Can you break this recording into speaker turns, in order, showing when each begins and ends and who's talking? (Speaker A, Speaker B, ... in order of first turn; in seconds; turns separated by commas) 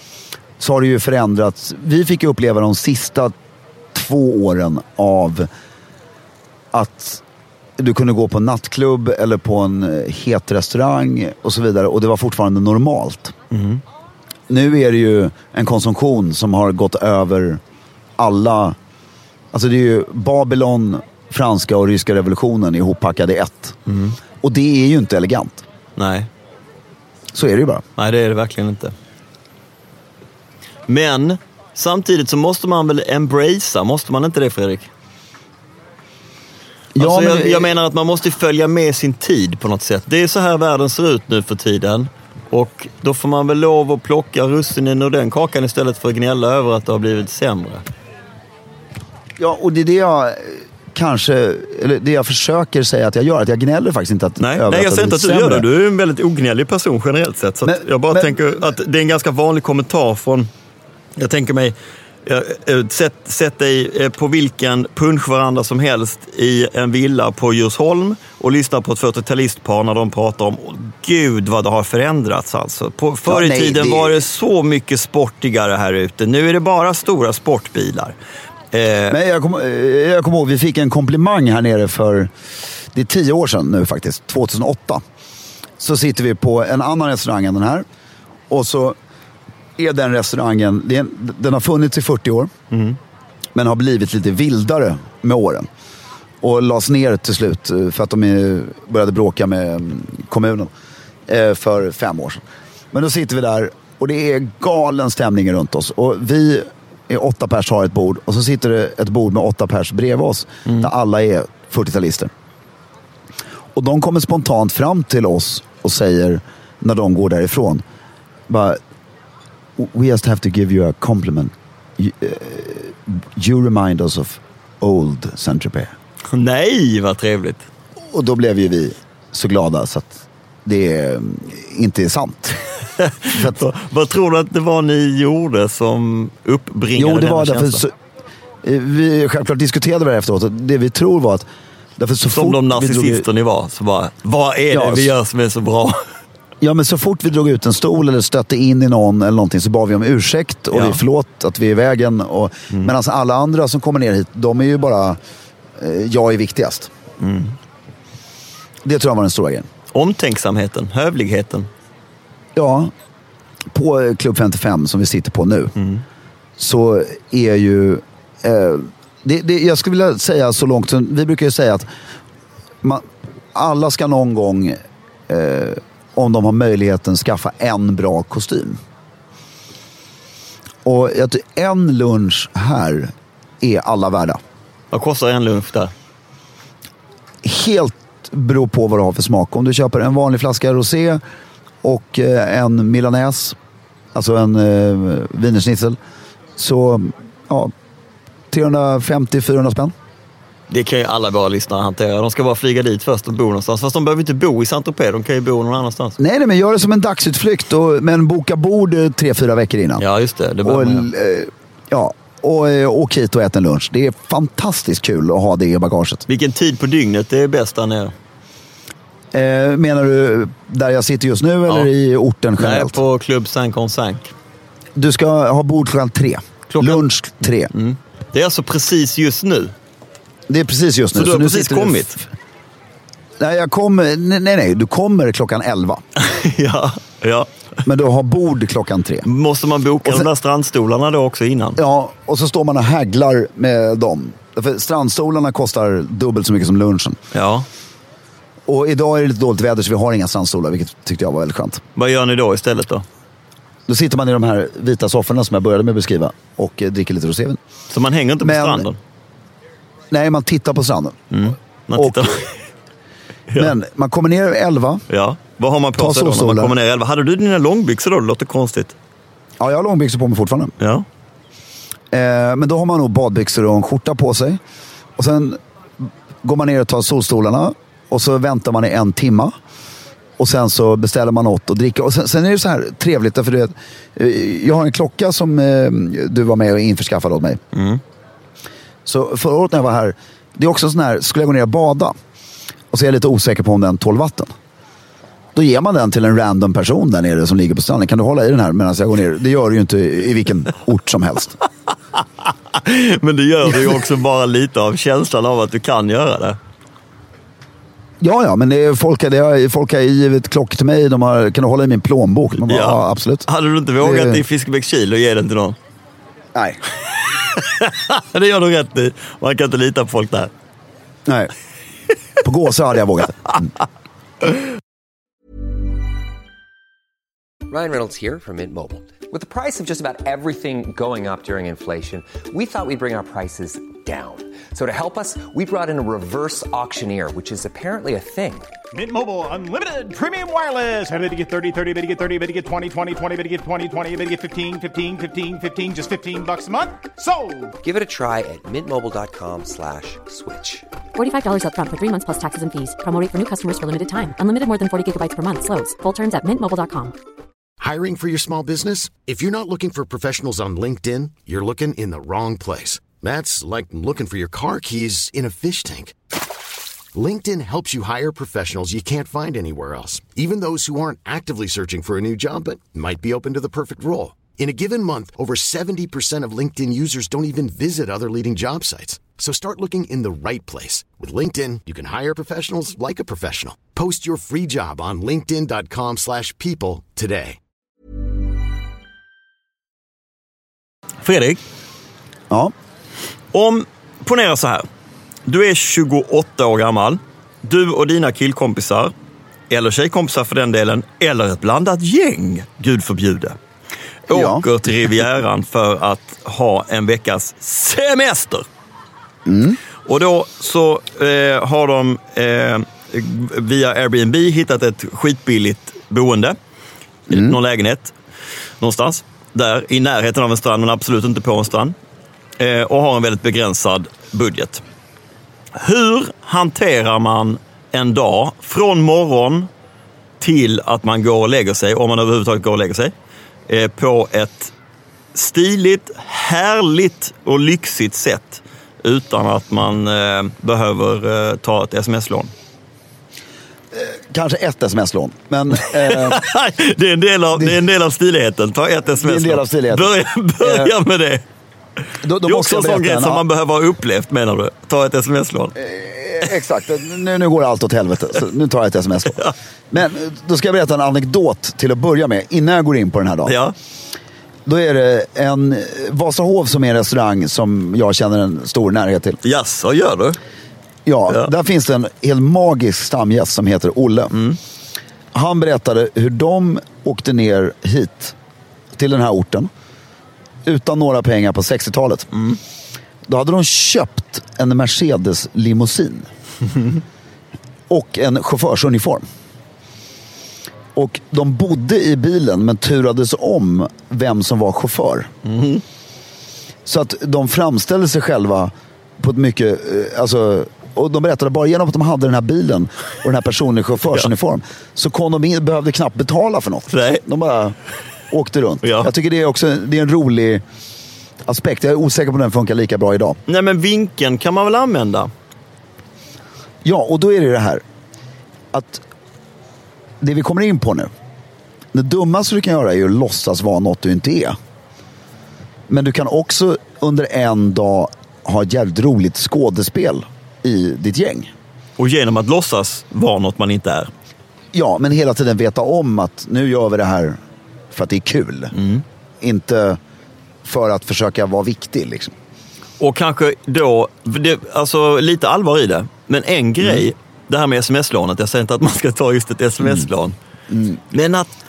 Speaker A: 0.6-3.3, Speaker A: 3.9-5.5, Speaker A: 6.7-7.2, Speaker A: 7.8-13.3, Speaker B: 13.5-13.8, Speaker A: 14.5-17.6, Speaker A: 18.2-18.8, Speaker A: 19.5-23.8, Speaker B: 23.9-24.2, Speaker A: 24.4-25.6, Speaker B: 25.9-26.3, Speaker A: 27.3-27.8, Speaker B: 28.0-28.9, Speaker B: 30.9-34.9, Speaker A: 36.9-37.7, Speaker B: 37.0-47.8, Speaker A: 49.4-55.6, Speaker B: 54.4-60.5, Speaker A: 57.6-58.5, Speaker B: 61.1-78.1, Speaker A: 73.2-74.2, Speaker B: 78.7-79.2, Speaker A: 79.1-82.3, Speaker A: 82.9-85.0, Speaker A: 85.8-87.8, Speaker A: 88.5-89.0, Speaker A: 89.8-92.5, Speaker B: 92.7-93.0, Speaker A: 93.5-95.7, Speaker A: 96.4-100.7, Speaker A: 101.3-112.3, Speaker A: 113.7-117.8, Speaker A: 118.5-118.8, Speaker A: 119.8-125.9, Speaker B: 126.3-127.6, Speaker A: 128.1-132.6, Speaker B: 133.0-137.8, Speaker A: 133.3-133.6, Speaker A: 136.9-137.9, Speaker A: 138.6-141.4, Speaker A: 142.0-143.2, Speaker B: 142.3-146.0, Speaker A: 144.7-145.1, Speaker A: 146.6-155.2, Speaker B: 150.7-151.0, Speaker A: 155.8-156.9, Speaker B: 157.2-157.5, Speaker A: 158.8-159.7, Speaker B: 159.9-161.7, Speaker A: 162.6-162.9, Speaker A: 163.7-165.7, Speaker A: 166.6-171.9, Speaker A: 172.8-178.8, Speaker A: 180.8-184.4, Speaker B: 184.9-185.9, Speaker A: 187.4-191.2, Speaker A: 191.8-193.6, Speaker A: 194.1-196.0, Speaker A: 196.6-197.7, Speaker A: 198.5-199.9, Speaker B: 200.7-206.2, Speaker A: 206.2-210.0, Speaker B: 210.0-211.1, Speaker A: 210.6-216.2, Speaker B: 216.3-218.1, Speaker A: 219.3-223.0, Speaker B: 222.6-224.3, Speaker A: 224.9-227.7, Speaker B: 226.7-227.0, Speaker B: 227.7-229.7, Speaker A: 230.5-232.2, Speaker B: 231.1-232.2, Speaker A: 233.4-236.0, Speaker B: 236.2-237.5, Speaker A: 237.8-239.3, Speaker B: 239.2-241.8, Speaker A: 241.8-247.2, Speaker B: 247.3-247.7, Speaker A: 248.7-251.8, Speaker B: 251.9-253.0, Speaker A: 253.9-257.6, Speaker B: 257.9-259.0, Speaker A: 258.4-258.9, Speaker A: 260.1-261.2, Speaker B: 261.3-262.5, Speaker A: 262.0-262.3, Speaker A: 263.5-265.0, Speaker B: 265.1-268.9, Speaker A: 266.0-266.7, Speaker A: 269.6-270.7, Speaker B: 270.8-271.1, Speaker A: 272.1-274.6, Speaker A: 275.2-279.5, Speaker A: 280.4-287.6, Speaker B: 287.7-288.0, Speaker A: 289.0-292.1, Speaker A: 292.9-294.5, Speaker A: 295.5-301.6, Speaker B: 302.7-306.6, Speaker A: 308.2-313.5, Speaker B: 312.6-315.8, Speaker A: 314.0-314.4, Speaker A: 316.5-316.8, Speaker B: 317.2-320.5, Speaker A: 321.3-321.5, Speaker A: 322.4-323.7, Speaker C: 327.7-338.7, Speaker D: 338.9-347.7, Speaker C: 347.8-350.9, Speaker E: 351.1-357.1, Speaker F: 357.8-366.1, Speaker F: 367.1-387.6, Speaker B: 391.2-391.6, Speaker B: 393.5-394.9, Speaker B: 395.4-399.1, Speaker B: 399.7-403.6, Speaker B: 404.3-408.7, Speaker A: 404.3-404.6, Speaker A: 409.4-409.8, Speaker B: 410.0-416.6, Speaker B: 417.3-418.1, Speaker B: 418.8-421.9, Speaker B: 422.6-424.8, Speaker B: 425.7-429.7, Speaker B: 430.4-433.1, Speaker B: 433.7-434.7, Speaker B: 435.3-442.5, Speaker A: 443.9-446.4, Speaker B: 445.8-451.4, Speaker A: 449.2-450.9, Speaker A: 452.2-453.4, Speaker B: 452.4-455.7, Speaker A: 455.7-463.6, Speaker B: 463.4-463.7, Speaker A: 464.6-469.4, Speaker B: 469.4-470.4, Speaker A: 471.1-474.4, Speaker B: 474.3-474.6, Speaker A: 475.3-478.3, Speaker A: 478.9-479.7, Speaker A: 480.6-482.3, Speaker B: 482.3-482.6, Speaker A: 483.3-486.3, Speaker A: 487.9-489.2, Speaker A: 490.9-495.3, Speaker B: 495.4-495.8, Speaker A: 496.9-507.8, Speaker B: 506.9-507.2, Speaker A: 508.3-510.6, Speaker B: 508.8-509.1, Speaker A: 511.4-513.4, Speaker B: 513.5-515.3, Speaker A: 516.8-517.8, Speaker A: 518.7-519.0, Speaker A: 520.2-521.1, Speaker A: 521.9-524.5, Speaker A: 525.9-531.5, Speaker B: 532.0-534.1, Speaker A: 534.7-537.4, Speaker A: 537.9-538.8, Speaker B: 538.7-539.0, Speaker A: 539.4-540.0, Speaker A: 540.6-542.3, Speaker B: 543.0-550.4, Speaker A: 550.7-551.0, Speaker B: 551.1-551.5